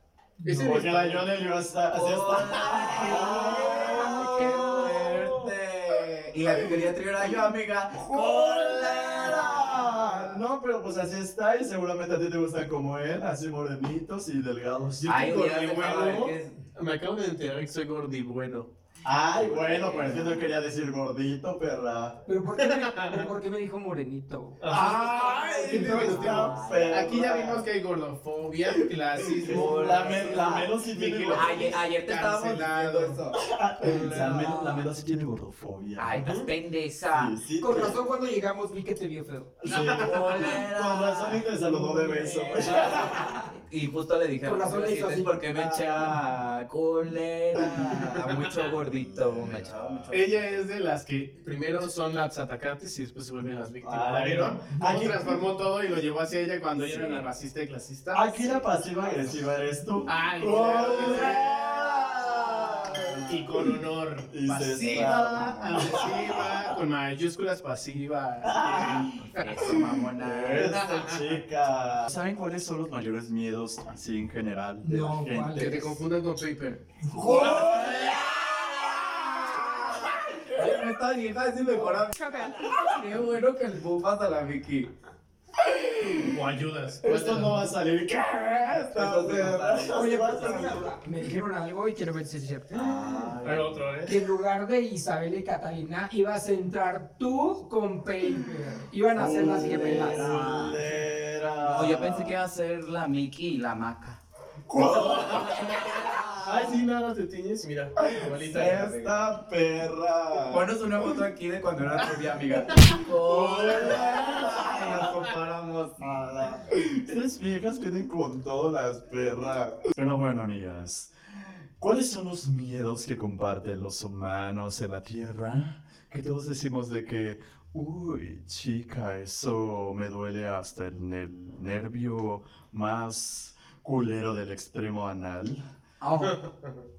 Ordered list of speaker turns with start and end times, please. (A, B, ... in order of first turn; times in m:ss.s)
0:00.4-0:00.8 A
0:00.4-0:01.3 B
0:00.6-0:05.4 C
0:01.9-0:10.3 D
0:02.8-0:05.3 B
0:06.5-0:07.2 C
0:07.9-0:15.3 C
0:15.0-0:18.7 B
0:15.0-0:16.6 D
0:19.0-0:22.2 C
0:19.4-0:20.4 D
0:22.3-0:24.7 A
0:22.6-0:23.3 B
0:24.6-0:33.2 B
0:24.7-0:27.6 C
0:25.5-0:27.1 D
0:25.5-0:26.5 A
0:29.2-0:31.8 C
0:29.4-0:30.7 D
0:31.3-0:33.4 D
0:33.3-0:36.2 C
0:33.8-0:34.5 B
0:34.0-0:34.6 D
0:34.1-0:34.8 A
0:36.0-0:37.4 D
0:36.1-0:36.5 B
0:37.1-0:38.0 C
0:37.6-0:39.6 A
0:39.6-0:43.4 C
0:39.7-0:40.5 B
0:39.7-0:41.5 D
0:42.0-0:43.0 B
0:42.5-0:50.4 D
0:42.6-0:42.9 A
0:44.4-0:45.4 A
0:45.5-0:46.1 C
0:47.6-0:50.4 C
0:50.1-0:58.7 B
0:53.8-0:55.4 C
0:58.1-1:03.7 C
1:00.0-1:01.7 B
1:02.6-1:03.2 D
1:03.2-1:09.7 B
1:04.3-1:06.7 C
1:04.7-1:06.0 D
1:08.4-1:15.9 C
1:08.6-1:10.8 D
1:10.5-1:11.4 B
1:14.8-1:16.0 A
1:15.5-1:18.1 B
1:17.1-1:20.6 C
1:17.1-1:24.9 D
1:25.6-1:26.4 C
1:26.1-1:27.7 B
1:27.0-1:30.9 C
1:28.9-1:30.7 D
1:29.9-1:33.0 A
1:32.7-1:33.8 C
1:32.7-1:34.2 B
1:34.0-1:40.3 A
1:39.1-1:42.4 C
1:39.2-1:40.8 D
1:40.4-1:40.8 B
1:41.6-1:44.2 D
1:44.7-1:46.8 C
1:44.8-1:45.7 B
1:45.2-1:46.3 D
1:46.4-1:49.1 B
1:48.0-1:50.9 C
1:48.5-1:49.1 D
1:50.4-1:56.0 D
1:53.0-1:55.2 C
1:53.7-1:54.4 B
1:56.0-2:15.7 C
2:16.0-2:16.4 D
2:16.2-2:16.8 B